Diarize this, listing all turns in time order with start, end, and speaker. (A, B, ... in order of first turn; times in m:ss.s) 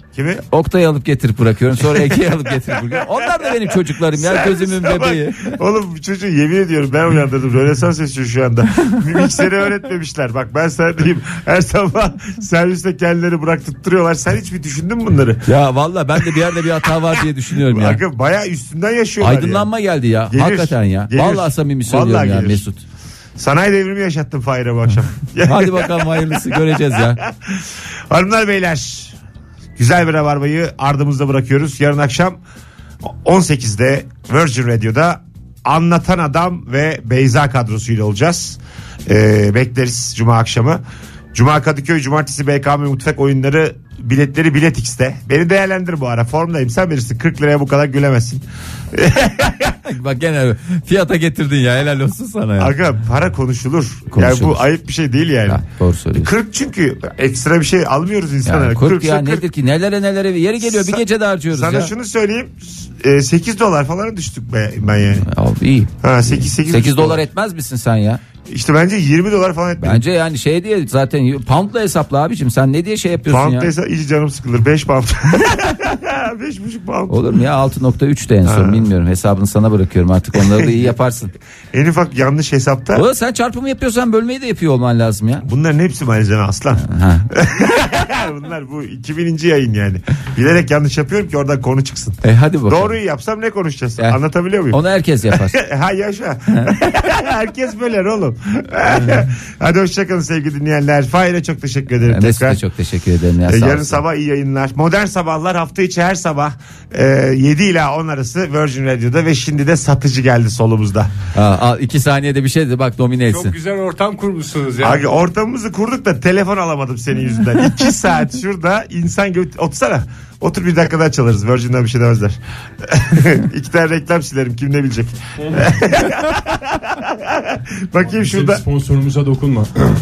0:00.1-0:00.4 A
0:00.5-0:05.6 B
0:01.9-0:15.5 A
0:15.5-0:18.0 B
0:16.2-0:16.4 A
0:17.0-0:19.7 A
0:19.2-0:22.8 B
0:20.3-0:22.6 A
0:23.4-0:29.2 A
0:25.4-0:27.2 B
0:29.8-0:32.4 A
0:33.0-0:40.8 A
0:41.3-0:49.8 A
0:49.8-0:52.8 B
0:52.6-0:55.6 A
0:54.1-0:54.7 B
0:55.5-0:56.3 B
0:56.2-0:59.4 A
0:58.4-1:01.9 B
1:00.6-1:05.3 A
1:05.2-1:08.2 B
1:06.0-1:07.2 A
1:08.5-1:10.0 A
1:09.8-1:13.7 B
1:13.3-1:17.1 A
1:17.1-1:21.3 B
1:18.4-1:18.9 A
1:20.4-1:20.9 A
1:21.7-1:23.1 A
1:23.0-1:25.5 B
1:25.4-1:42.6 A
1:26.8-1:27.3 B
1:32.2-1:33.0 B
1:34.7-1:35.6 B
1:36.5-1:36.7 B
1:42.0-1:44.0 B
1:43.5-1:51.1 A
1:51.3-1:53.6 B
1:53.3-1:55.0 C
1:54.8-2:08.6 A
2:05.4-2:05.7 C
2:08.1-2:09.7 C